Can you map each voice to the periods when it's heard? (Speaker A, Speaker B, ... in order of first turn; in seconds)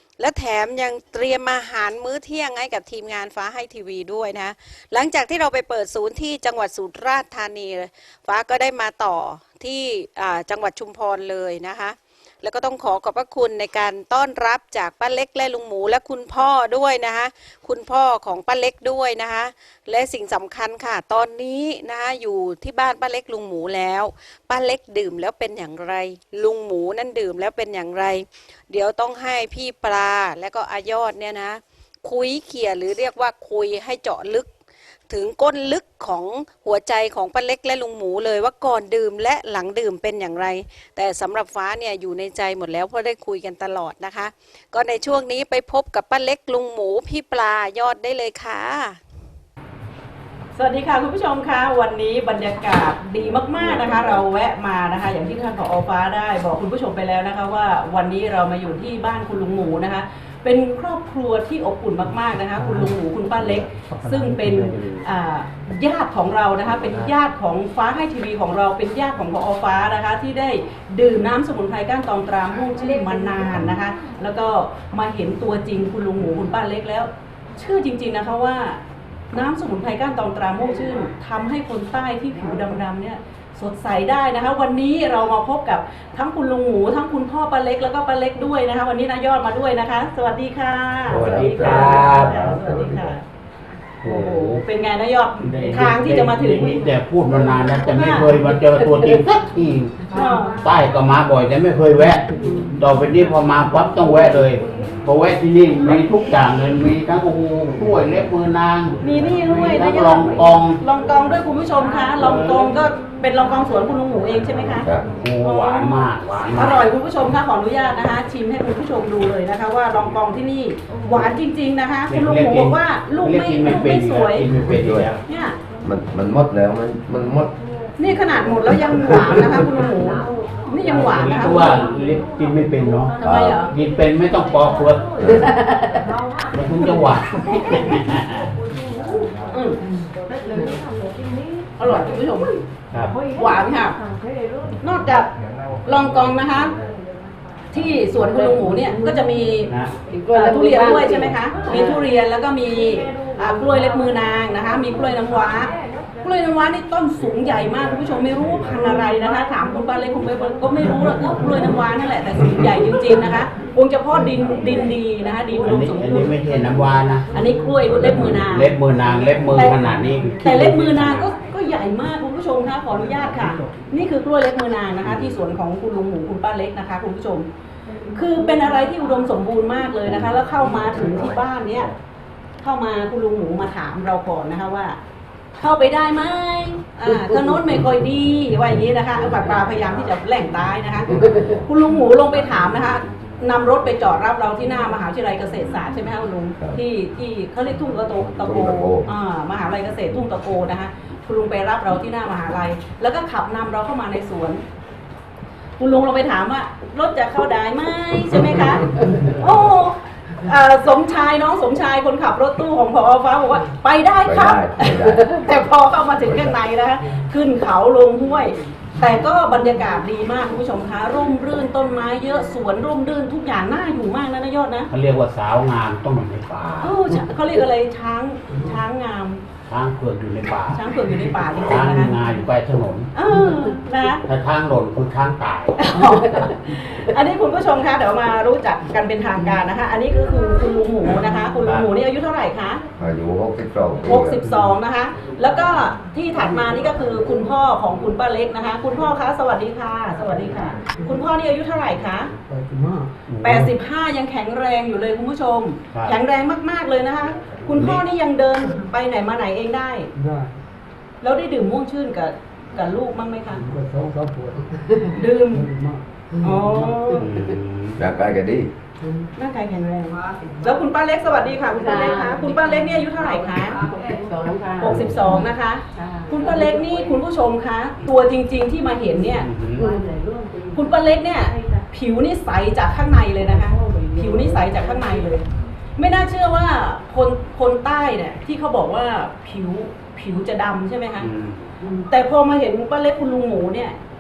Speaker A: 0.2-34.5, 35.1-49.0
Speaker B: 50.6-78.8, 79.3-93.2, 94.0-96.8, 97.9-98.3, 100.1-100.6, 109.0-114.9, 115.4-124.5, 125.3-125.6, 128.0-131.9, 133.2-133.7, 139.5-139.8, 141.8-142.6, 143.3-144.0, 144.8-145.3, 145.8-146.7, 147.7-149.7, 150.3-155.7, 156.2-166.3, 167.3-168.7, 169.6-169.9, 170.4-177.5, 178.1-181.9, 182.6-185.0, 185.6-204.6, 205.8-214.9, 215.4-224.9, 226.8-229.4, 230.7-232.2, 233.2-234.2, 235.8-242.8, 244.1-252.3, 253.4-260.1, 261.2-263.6, 265.1-265.7, 266.4-267.3, 269.4-273.8, 274.8-279.5, 280.7-285.4, 286.0-291.3, 292.1-293.9
Speaker C: 91.1-93.1, 124.6-125.1, 125.8-127.5, 128.8-129.6, 133.2-133.6, 189.2-189.9, 198.4-199.1, 214.2-215.3, 216.2-216.6, 243.0-244.4, 268.0-268.7
Speaker D: 91.1-92.5, 94.0-94.6, 95.4-110.8, 112.2-112.8, 115.2-116.9, 122.1-125.2, 130.9-133.1, 133.7-135.4, 136.5-138.5, 142.9-143.2, 149.7-149.9, 165.6-167.3, 167.9-171.3, 224.9-227.2, 229.7-233.1, 234.3-235.8, 253.3-253.7, 257.7-258.0, 264.0-264.3, 267.1-268.0, 279.4-279.9, 291.2-291.6
Speaker E: 135.3-136.0, 148.2-148.9, 150.1-152.0, 214.9-215.2, 264.6-265.2, 266.3-266.9, 271.8-273.0, 273.8-276.6, 279.8-280.2